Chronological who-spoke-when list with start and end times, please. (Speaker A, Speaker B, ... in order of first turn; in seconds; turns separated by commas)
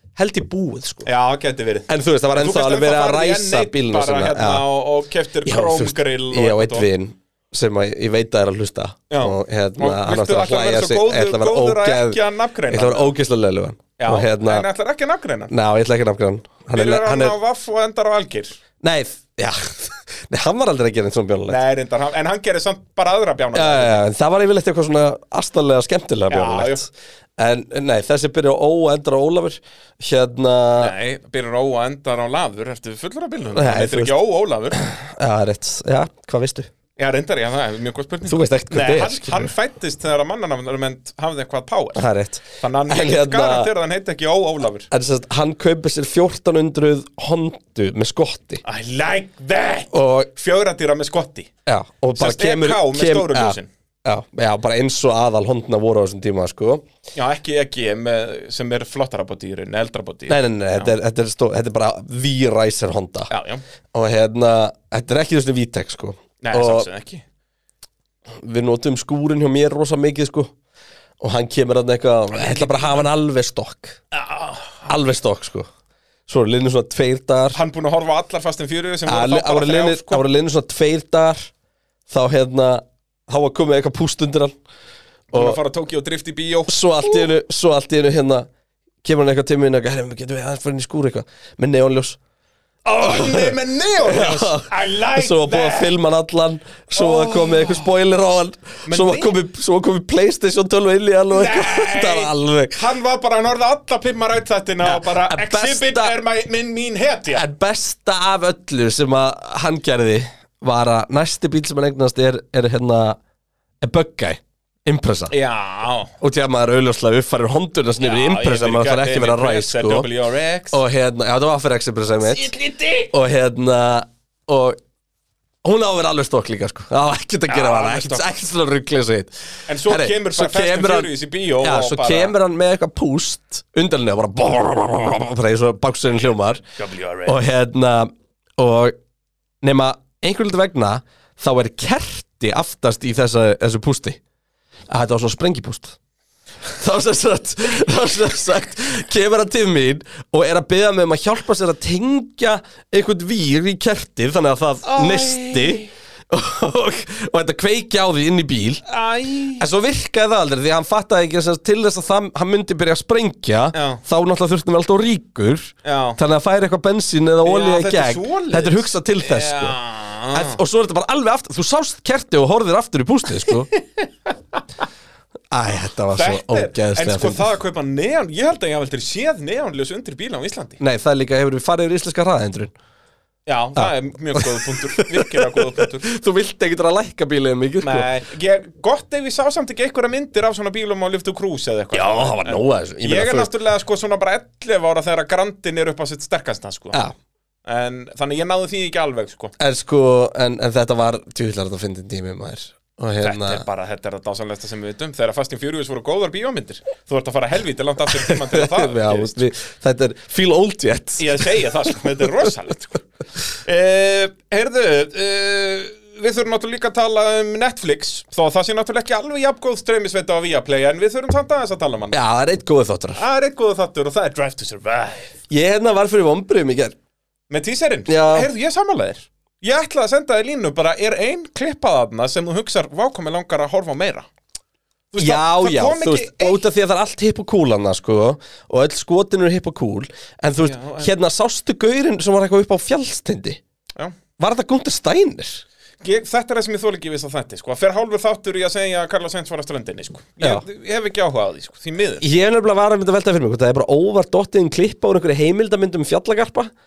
Speaker A: 0.1-1.1, Speaker B: 1.1-6.9, Speaker A: 1.9-4.6, Speaker A: 5.4-14.7, Speaker B: 9.1-13.1, Speaker B: 14.0-15.5, Speaker A: 15.5-17.4, Speaker B: 16.7-18.6, Speaker A: 18.8-21.6, Speaker B: 21.5-24.0, Speaker A: 23.5-30.9, Speaker B: 26.3-26.8, Speaker B: 30.8-34.8, Speaker A: 33.5-34.1, Speaker A: 34.7-36.7, Speaker B: 37.0-42.0, Speaker A: 38.3-39.5, Speaker A: 41.9-43.7, Speaker B: 42.6-44.9, Speaker A: 44.9-48.6, Speaker B: 48.6-51.5, Speaker A: 49.9-50.3, Speaker A: 51.6-56.8, Speaker B: 52.1-53.7, Speaker B: 57.1-60.9, Speaker A: 60.3-63.3, Speaker B: 63.3-63.6, Speaker A: 63.9-66.9, Speaker B: 66.4-67.2, Speaker A: 68.4-70.5, Speaker A: 71.2-74.0, Speaker B: 72.3-73.1, Speaker B: 74.1-74.9, Speaker A: 74.9-75.7, Speaker A: 76.3-77.6, Speaker B: 77.5-80.2, Speaker A: 79.0-81.5, Speaker A: 82.1-84.5, Speaker B: 85.3-87.3, Speaker A: 85.3-85.6, Speaker A: 86.7-88.5, Speaker A: 89.0-92.2, Speaker B: 92.8-95.9, Speaker A: 93.0-102.8, Speaker B: 96.9-97.8, Speaker B: 98.9-99.3, Speaker B: 101.3-107.4, Speaker A: 104.8-106.2, Speaker A: 107.3-113.2, Speaker A: 113.8-115.3, Speaker B: 115.3-116.1, Speaker A: 116.2-120.1, Speaker B: 118.0-120.8, Speaker A: 120.7-122.5, Speaker B: 122.2-123.1, Speaker A: 123.1-124.8, Speaker A: 125.6-136.6, Speaker B: 127.5-128.4, Speaker B: 129.7-132.3, Speaker B: 136.7-137.5, Speaker A: 137.2-138.9, Speaker A: 139.6-144.2, Speaker A: 144.9-146.0, Speaker A: 146.7-158.8, Speaker B: 154.8-155.9, Speaker B: 158.9-159.6, Speaker A: 159.6-169.8, Speaker B: 163.7-164.0, Speaker B: 165.8-166.2, Speaker B: 167.4-170.6, Speaker A: 170.3-173.7, Speaker B: 173.4-174.3, Speaker A: 175.5-177.5, Speaker B: 176.1-180.8, Speaker A: 180.8-182.7, Speaker B: 183.4-186.1, Speaker A: 183.8-188.1, Speaker B: 187.8-197.0, Speaker A: 191.9-193.5, Speaker B: 197.6-199.5, Speaker A: 199.6-203.6, Speaker B: 203.2-209.4, Speaker A: 208.1-211.4, Speaker B: 211.2-213.0, Speaker B: 213.5-222.2, Speaker A: 222.1-223.2, Speaker B: 223.2-225.3, Speaker A: 225.5-226.9, Speaker B: 227.5-234.3, Speaker A: 228.1-228.5, Speaker B: 235.1-236.6, Speaker A: 235.2-243.6, Speaker B: 240.6-241.1, Speaker A: 244.4-245.6, Speaker B: 246.0-252.2, Speaker A: 252.2-256.7